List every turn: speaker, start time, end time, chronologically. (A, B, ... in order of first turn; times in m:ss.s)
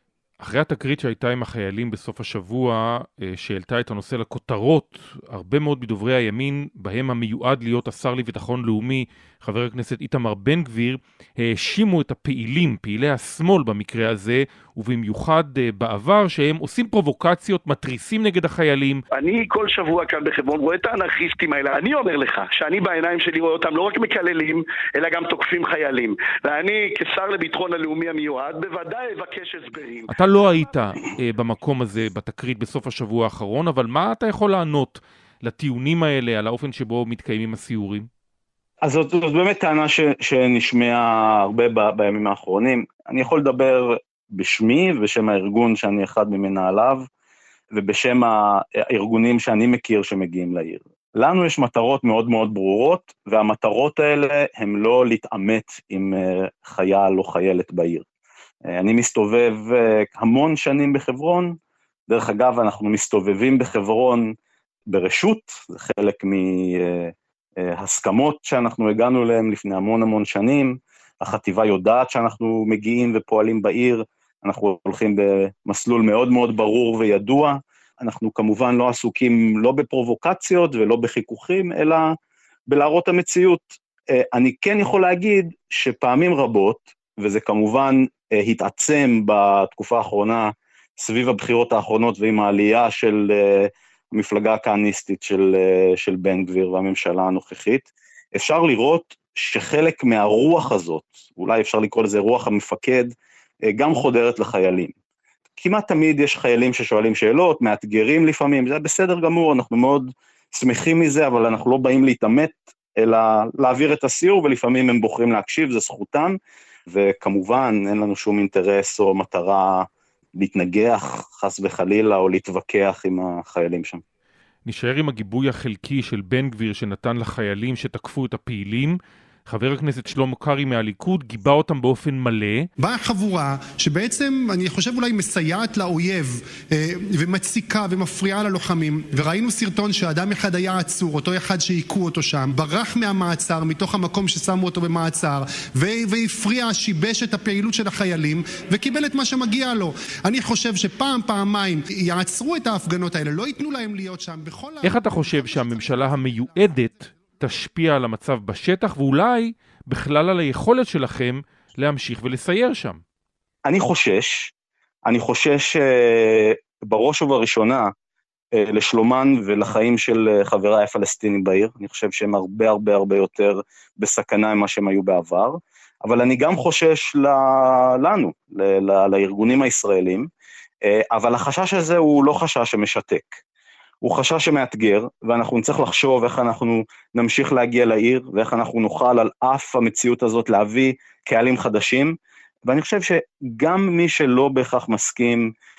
0:00.4-0:19.0 A
0:19.2-0:30.1 B
0:30.1-0:38.1 A
0:38.8-0:47.1 C
0:47.7-0:58.0 C
0:58.7-1:01.6 C
1:02.1-1:04.4 C
1:04.9-1:22.1 C
1:22.7-1:43.1 C
1:43.7-1:44.9 C
1:45.6-1:56.4 C
1:56.9-2:04.0 C
2:04.7-2:12.7 A
2:12.8-2:37.2 D
2:34.8-2:43.0 A
2:43.6-2:44.5 C
2:45.1-2:47.9 C
2:48.5-3:00.3 C
3:00.9-3:03.4 C
3:04.0-3:15.5 C